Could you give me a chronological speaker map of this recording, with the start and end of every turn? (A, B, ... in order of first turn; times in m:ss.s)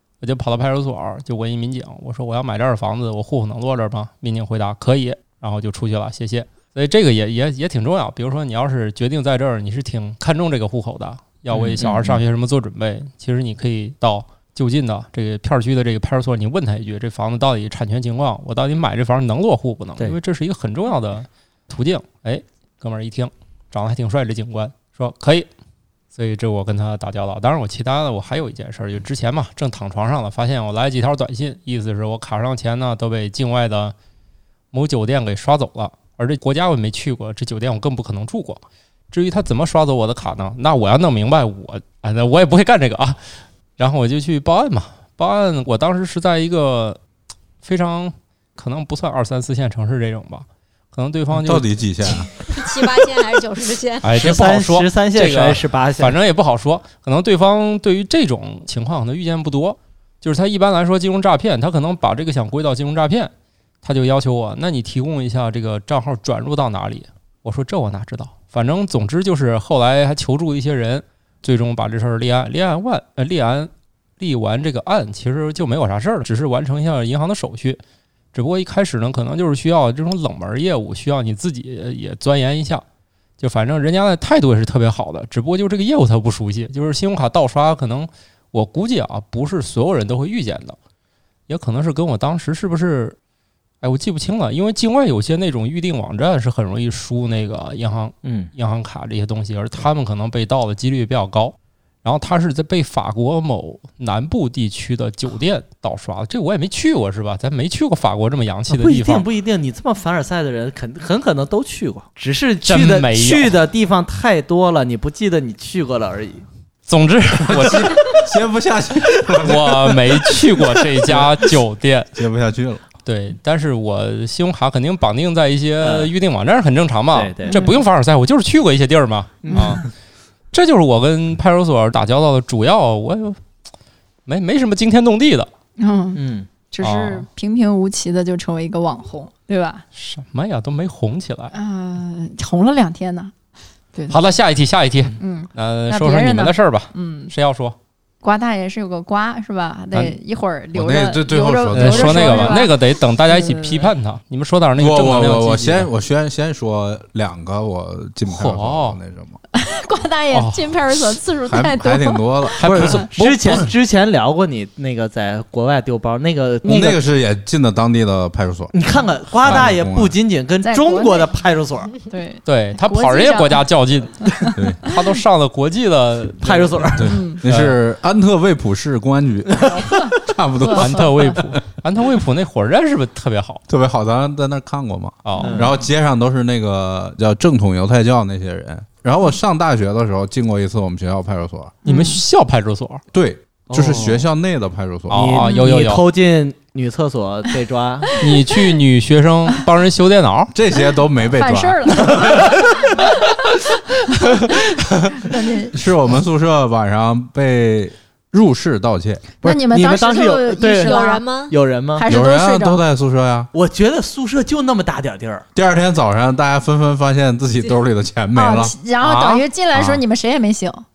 0:00.2-0:25.5 A
0:11.5-0:12.2 B
0:26.2-0:34.0 A
0:34.7-0:43.2 A
0:43.8-0:47.0 A
0:47.6-0:51.7 A
0:51.3-0:52.3 C
0:52.5-0:54.1 D
0:54.0-1:03.3 A
0:54.2-0:56.2 B
1:03.8-1:17.8 A
1:18.3-1:22.8 A
1:23.4-1:30.8 A
1:31.5-1:33.2 A
1:33.8-1:49.3 A
1:38.2-1:38.5 B
1:48.7-1:56.4 B
1:52.6-1:53.6 A
1:56.9-1:58.2 A
1:57.5-2:00.4 C
1:59.3-2:02.1 A
2:01.1-2:01.4 C
2:02.2-2:02.8 C
2:03.0-2:09.8 A
2:05.8-2:06.1 B
2:07.1-2:07.6 B
2:07.5-2:07.8 E
2:09.4-2:09.9 B
2:09.5-2:09.8 E
2:10.5-2:13.4 A
2:14.3-2:15.5 A
2:15.8-2:19.8 E
2:16.2-2:16.5 B
2:16.8-2:17.3 A
2:20.0-2:21.5 A
2:21.5-2:23.3 E
2:23.9-2:24.2 E
2:24.1-2:27.8 A
2:25.2-2:27.3 E
2:28.2-2:33.9 E
2:30.7-2:32.5 C
2:31.7-2:35.9 A
2:34.8-2:39.4 C
2:38.3-2:39.0 A
2:39.6-2:43.1 E
2:40.3-2:40.7 A
2:41.5-2:42.6 C
2:42.6-2:43.7 A
2:42.6-2:47.0 B
2:46.6-2:48.7 C
2:48.7-2:51.9 B
2:49.3-2:50.2 C
2:50.6-2:51.3 E
2:52.1-2:53.7 E
2:52.5-2:54.3 A
2:54.3-2:55.0 E
2:54.6-2:54.8 C
2:54.8-2:57.8 A
2:56.4-2:57.1 B
2:57.0-3:01.5 C
2:57.0-2:57.4 E
3:00.6-3:01.4 E
3:00.8-3:03.6 A
3:03.7-3:11.8 C
3:05.2-3:05.6 A
3:05.4-3:05.7 E
3:05.4-3:05.8 B
3:11.8-3:12.2 E
3:11.8-3:13.0 A
3:13.1-3:15.4 C
3:13.7-3:14.3 B
3:15.1-3:16.0 A
3:15.1-3:18.2 B
3:18.2-3:20.5 A
3:20.5-3:22.0 C
3:21.3-3:23.3 E
3:22.0-3:22.9 B
3:24.0-3:25.8 E
3:25.7-3:29.6 C
3:29.4-3:31.2 E
3:29.7-3:32.1 B
3:30.8-3:31.6 D
3:32.0-3:32.8 E
3:32.1-3:33.5 C
3:33.5-3:35.5 B
3:35.6-3:38.8 C
3:38.3-3:40.8 E
3:39.0-3:40.0 A